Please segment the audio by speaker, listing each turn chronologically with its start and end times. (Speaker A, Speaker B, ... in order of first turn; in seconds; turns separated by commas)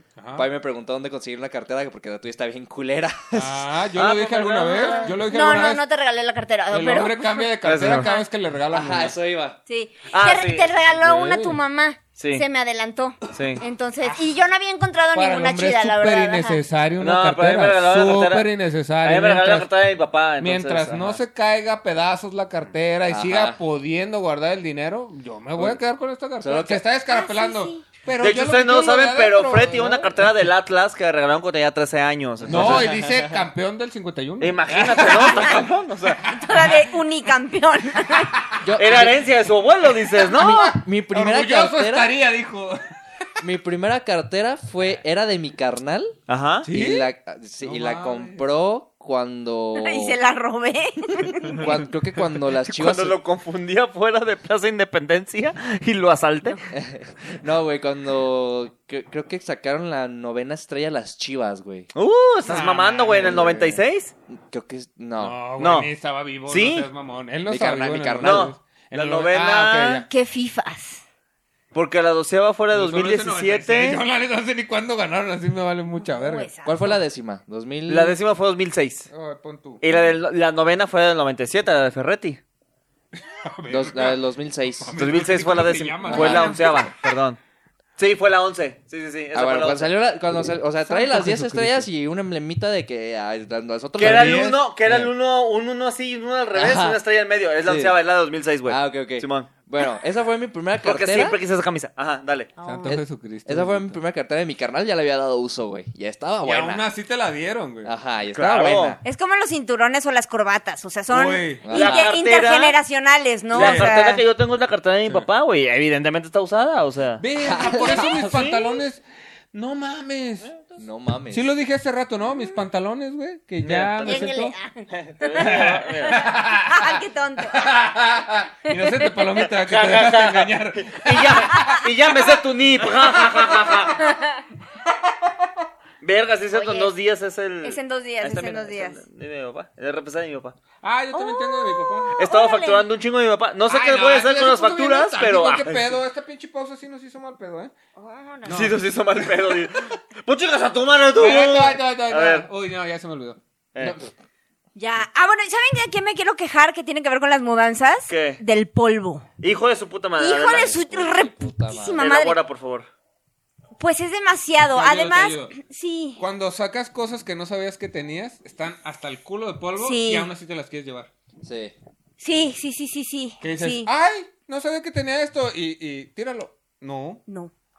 Speaker A: 0.1-0.5, Speaker B: 0.4-3.6, Speaker A: 3.3-5.8, Speaker C: 4.0-5.2, Speaker D: 4.9-8.3, Speaker A: 6.7-9.1, Speaker C: 7.6-8.1, Speaker B: 8.7-9.6, Speaker D: 9.7-16.6, Speaker C: 10.1-10.7, Speaker A: 11.0-11.6, Speaker C: 12.2-12.4, Speaker C: 13.3-13.6, Speaker A: 14.0-14.3, Speaker A: 15.1-19.7, Speaker C: 17.0-18.5, Speaker C: 19.0-21.2, Speaker A: 20.4-30.1, Speaker B: 23.1-23.6, Speaker B: 26.4-26.8, Speaker D: 27.1-27.8, Speaker C: 28.2-32.9, Speaker B: 32.4-33.4, Speaker A: 32.5-36.9, Speaker C: 34.4-36.3, Speaker D: 36.3-38.4, Speaker B: 38.6-39.2, Speaker C: 38.8-40.7, Speaker B: 40.3-42.1, Speaker A: 40.5-42.8, Speaker B: 43.4-50.2, Speaker C: 46.3-46.7, Speaker A: 46.6-48.5, Speaker D: 49.7-51.6, Speaker B: 51.5-53.2, Speaker C: 52.6-56.6, Speaker B: 56.7-61.9, Speaker C: 62.0-64.1, Speaker A: 62.5-63.5, Speaker B: 63.2-63.7, Speaker B: 64.3-65.4, Speaker A: 65.2-70.1, Speaker C: 65.6-65.9, Speaker C: 66.5-66.9, Speaker B: 67.5-68.5, Speaker C: 68.2-70.0, Speaker D: 70.1-71.0, Speaker C: 71.7-74.0, Speaker A: 72.7-76.5, Speaker D: 76.0-77.0, Speaker B: 76.6-78.2, Speaker C: 77.9-79.1, Speaker A: 79.1-79.8, Speaker C: 79.8-82.4, Speaker A: 83.1-84.2, Speaker B: 83.7-85.0, Speaker A: 84.8-86.9, Speaker C: 85.0-87.4, Speaker B: 86.0-86.9, Speaker C: 88.0-89.9, Speaker B: 89.3-95.1, Speaker A: 90.8-91.9, Speaker C: 94.0-99.5, Speaker A: 94.0-94.6, Speaker B: 96.5-97.0, Speaker B: 97.6-98.0, Speaker B: 98.7-101.4, Speaker C: 100.8-102.5, Speaker D: 102.6-102.9, Speaker A: 102.6-104.0, Speaker B: 102.9-106.8, Speaker A: 106.4-108.0, Speaker B: 107.8-109.0, Speaker C: 108.3-109.0, Speaker D: 109.0-114.2, Speaker A: 111.1-111.7, Speaker B: 111.6-112.0, Speaker C: 111.7-112.8, Speaker C: 113.5-118.8, Speaker A: 113.5-113.9, Speaker A: 117.2-120.5, Speaker B: 117.4-118.0, Speaker B: 120.8-121.5, Speaker A: 121.3-124.5, Speaker C: 123.6-124.3, Speaker D: 124.0-127.7, Speaker C: 124.9-126.2, Speaker A: 125.4-132.2, Speaker D: 128.7-129.4, Speaker C: 129.6-134.0, Speaker D: 131.5-131.8, Speaker A: 133.0-133.9, Speaker D: 134.0-134.4, Speaker C: 136.0-140.6, Speaker D: 136.5-136.9, Speaker D: 137.6-139.0, Speaker A: 140.8-142.2, Speaker D: 141.1-142.9, Speaker C: 142.2-146.0, Speaker A: 143.7-147.7, Speaker D: 148.0-148.7, Speaker A: 148.4-149.6, Speaker C: 148.5-152.5, Speaker A: 151.1-153.4, Speaker C: 153.7-154.0, Speaker B: 153.8-154.1, Speaker D: 154.7-159.3, Speaker C: 158.1-158.4, Speaker C: 159.4-160.7, Speaker D: 160.2-162.4, Speaker B: 160.5-162.1, Speaker C: 162.0-162.9, Speaker D: 163.8-166.2, Speaker A: 164.7-165.5, Speaker A: 166.2-171.1, Speaker D: 169.8-170.3, Speaker B: 171.4-171.7, Speaker D: 172.2-173.9, Speaker A: 173.4-177.2, Speaker D: 177.3-177.5